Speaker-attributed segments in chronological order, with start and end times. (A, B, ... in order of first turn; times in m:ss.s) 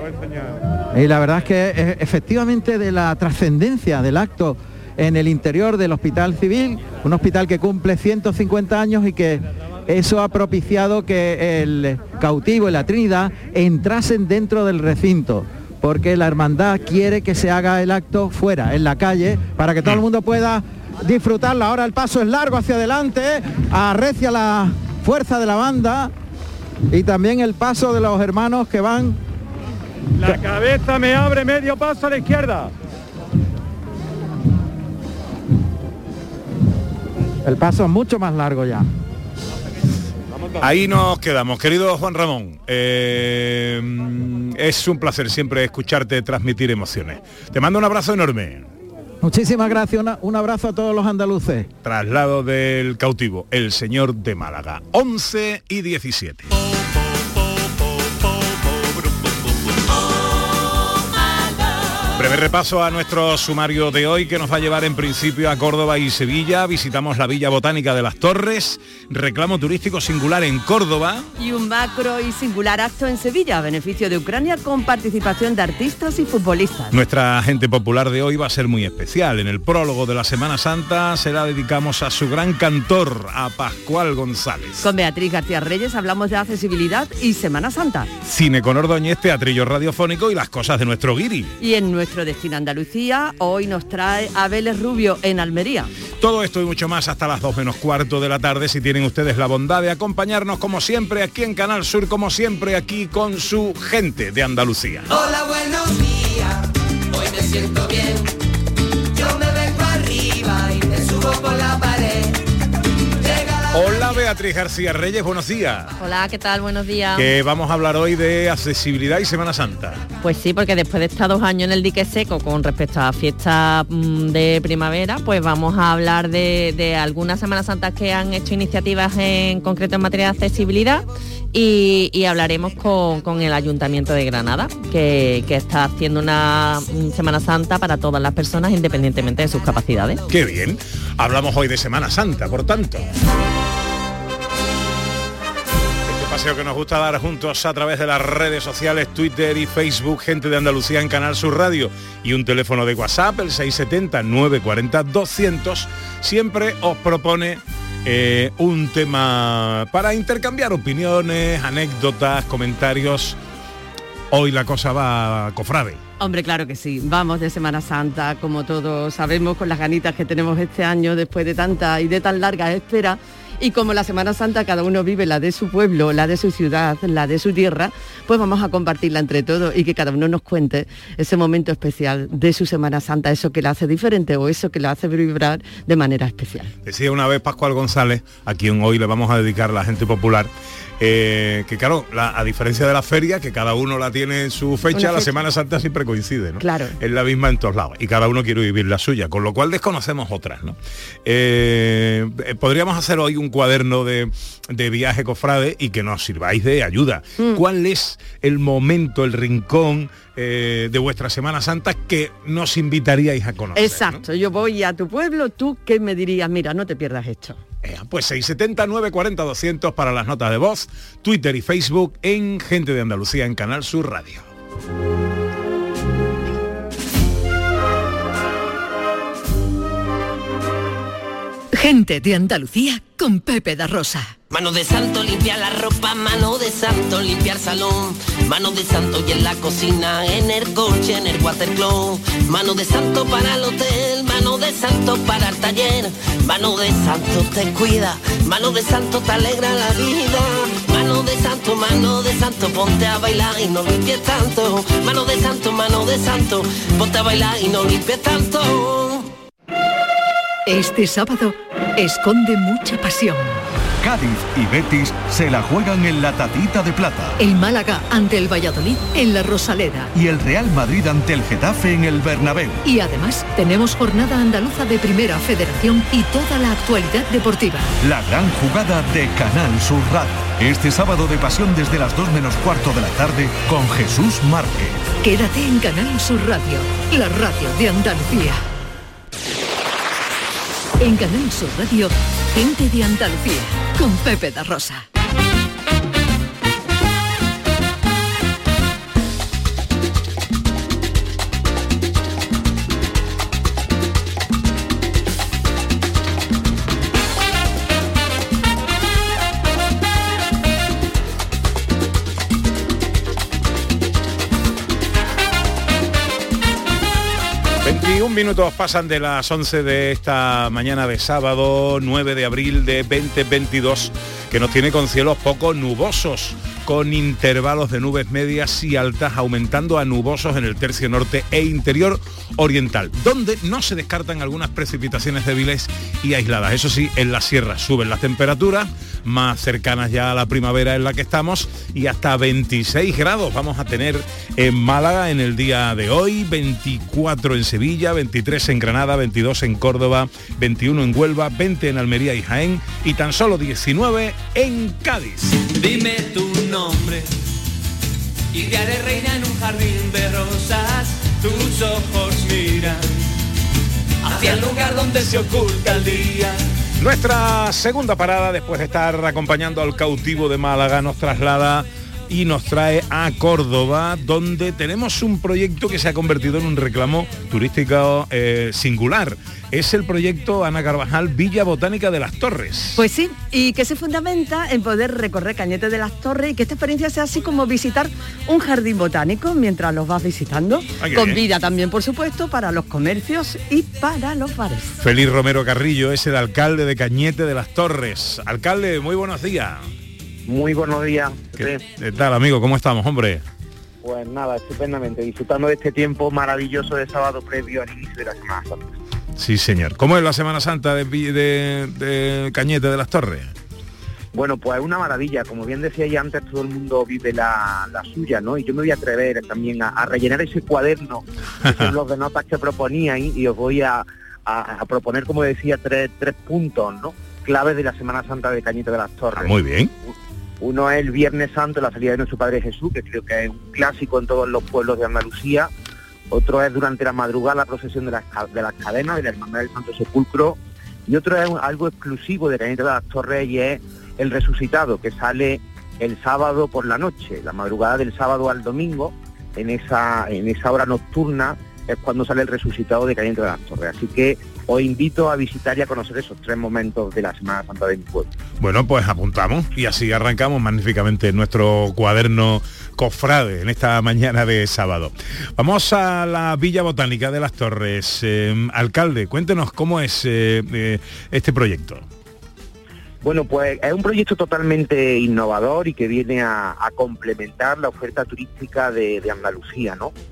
0:00.9-0:26.1 A
0:26.9-0:29.2 A
0:30.2-0:32.7 B
0:37.4-0:38.9 A
0:40.6-0:48.7 C
0:49.2-0:51.7 A
0:51.8-0:56.5 C
1:02.2-1:11.3 C
1:11.4-1:17.0 D
1:16.9-1:24.8 C
1:24.8-1:28.1 D
1:28.2-1:31.5 C
1:31.6-1:35.9 D
1:36.2-1:45.1 C
1:53.7-1:56.0 C
1:56.0-1:57.3 E
1:57.2-2:00.1 C
2:00.2-2:20.2 E
2:20.3-2:23.1 C
2:26.1-2:43.4 C
2:44.3-2:46.0 C
2:46.2-3:06.7 D
3:06.8-3:34.2 C
3:14.9-3:15.3 D
3:16.6-3:17.0 D
3:33.8-3:37.6 D
3:37.8-3:44.4 C
3:51.8-3:54.4 F
3:54.5-4:19.3 G
4:20.7-4:23.6 F
4:24.0-4:27.4 H
4:27.4-4:30.1 F
4:30.1-4:32.8 H
4:32.8-4:37.9 F
4:38.0-4:45.0 H
4:45.2-4:48.6 F
4:51.0-4:55.0 F
5:17.8-5:55.6 C
6:07.0-6:23.0 C
6:23.0-6:35.0 D
6:31.0-6:31.4 C
6:35.0-6:39.8 C
6:40.5-6:41.8 I
6:41.6-6:43.4 C
6:44.0-6:48.9 I
6:49.4-6:53.5 C
6:54.3-7:09.5 I
7:01.6-7:01.9 C
7:09.4-7:09.9 C
7:10.1-7:15.7 I
7:16.3-7:38.3 I
7:38.6-7:52.0 C
7:53.2-8:00.1 I